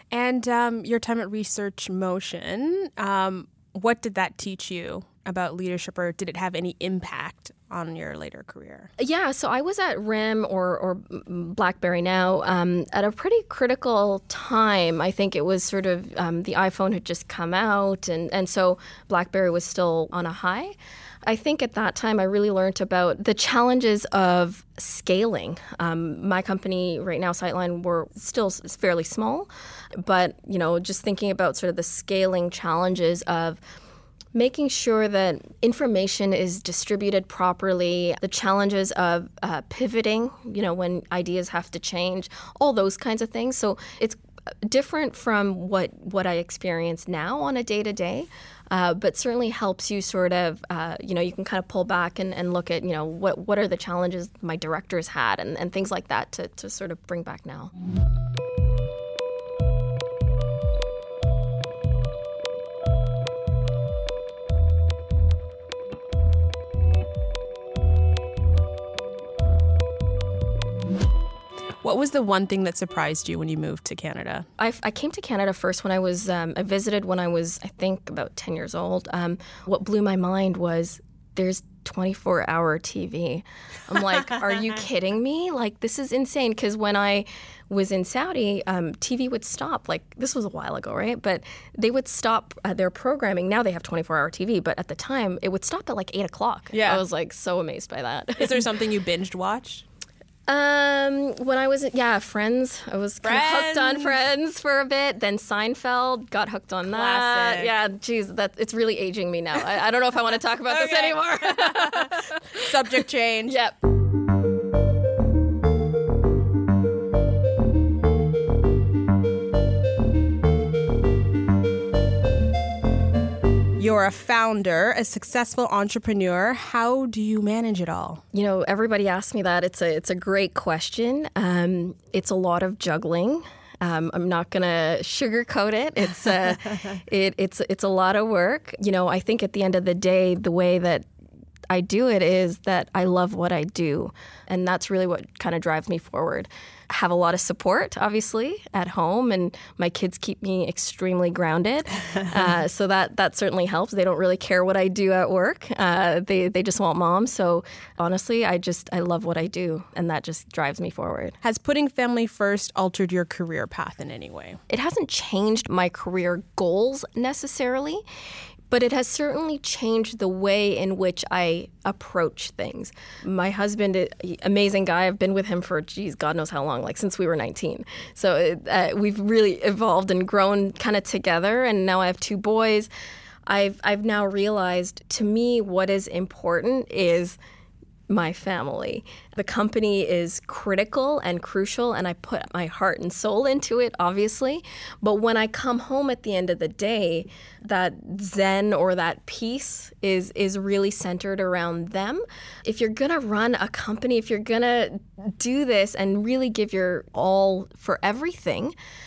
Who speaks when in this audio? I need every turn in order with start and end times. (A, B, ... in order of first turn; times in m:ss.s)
0:00.1-0:08.9 A
0:09.0-0:33.6 B
0:34.3-0:57.7 B
1:11.8-1:14.4 A
1:14.6-1:38.6 B
1:36.7-1:37.0 A
1:38.4-1:39.8 A
1:40.5-1:53.8 B
1:43.2-1:44.2 A
1:46.9-1:47.7 A
1:50.7-1:53.6 A
2:03.8-2:08.2 A
2:08.3-2:21.0 B
2:21.7-2:41.4 B
2:41.4-2:44.6 A
2:44.7-2:48.0 B
2:48.7-3:02.9 B
3:03.5-3:07.4 B
3:08.1-3:28.7 B